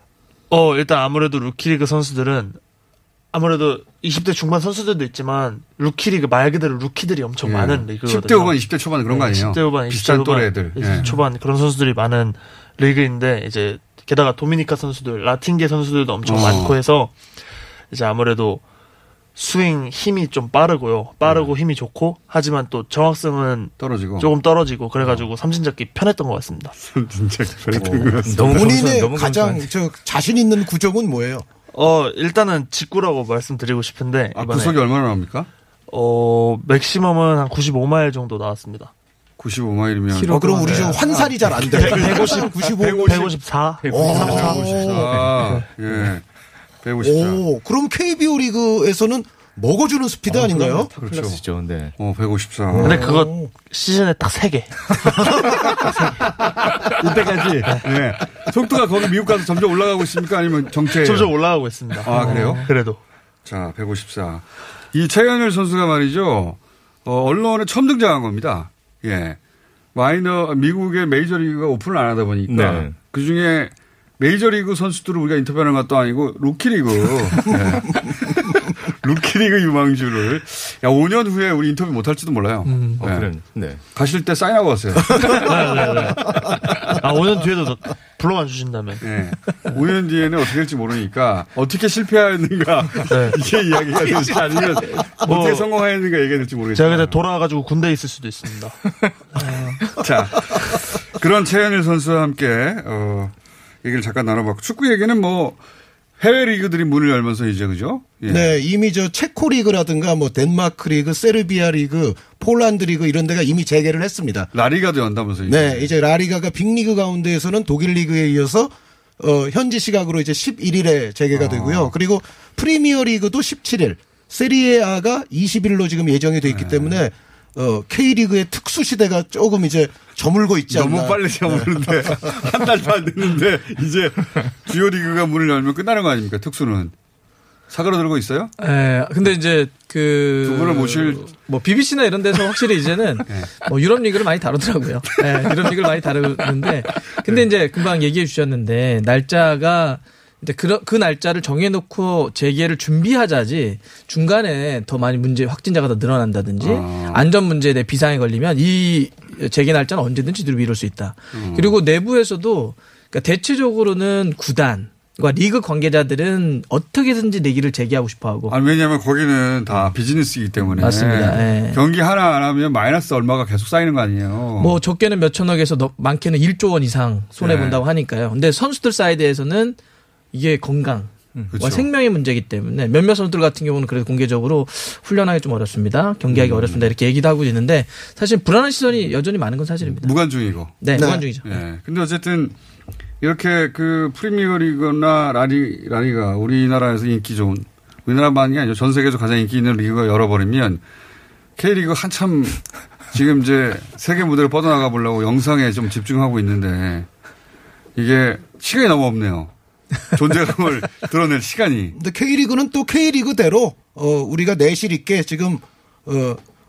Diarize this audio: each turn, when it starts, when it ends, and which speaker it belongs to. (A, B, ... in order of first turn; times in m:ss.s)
0:00.5-0:02.6 A
0:03.3-0:17.1 A
0:07.4-0:11.1 B
0:16.2-0:16.8 B
0:17.9-0:18.6 A
0:19.4-0:26.7 A
0:21.2-0:21.6 B
0:23.8-0:24.3 B
0:25.0-0:25.3 B
0:26.8-0:28.9 B
0:27.7-0:31.4 C
0:28.2-0:29.7 D
0:31.7-0:34.8 A
0:34.3-0:35.5 B
0:35.9-0:38.9 A
0:39.4-0:43.4 B
0:40.1-0:41.3 E
0:40.2-0:43.2 C
0:41.6-0:44.6 A
0:43.8-0:45.4 D
0:43.9-0:45.2 C
0:44.1-0:46.2 B
0:45.4-0:46.1 A
0:46.8-0:47.4 B
0:47.0-0:50.9 C
0:50.3-0:52.0 D
0:51.0-0:51.4 B
0:52.0-0:53.1 B
0:52.7-0:53.5 C
0:52.8-0:55.2 A
0:57.0-1:02.7 B
0:57.6-0:58.0 A
1:00.9-1:03.0 A
1:03.4-1:09.4 B
1:09.9-1:18.3 B
1:12.5-1:13.0 D
1:18.9-1:25.8 B
1:23.0-1:23.8 D
1:25.3-1:26.4 A
1:26.9-1:29.0 A
1:29.0-1:37.2 B
1:33.1-1:33.4 A
1:35.1-1:35.7 A
1:36.7-1:38.8 A
1:39.3-1:39.9 A
1:40.0-1:45.6 B
1:46.2-1:48.6 B
1:48.3-1:54.5 C
1:54.5-1:55.9 B
1:55.5-2:12.3 C
2:01.3-2:01.9 B
2:06.5-2:07.0 B
2:10.7-2:16.9 B
2:17.7-2:18.5 B
2:18.6-2:48.6 E
2:20.4-2:21.3 B
2:36.6-2:37.2 B
2:41.3-2:41.8 B
2:48.5-2:54.8 B
2:50.8-2:51.8 E
2:54.6-2:59.8 E
2:57.4-2:57.8 B
3:00.3-3:10.2 E
3:01.5-3:01.9 B
3:06.3-3:06.9 B
3:09.8-3:12.6 B
3:10.8-3:11.6 E
3:10.9-3:11.3 C
3:13.2-3:20.8 B
3:21.6-3:27.1 B
3:28.0-3:29.5 B
3:30.1-3:32.0 B
3:32.0-3:36.4 C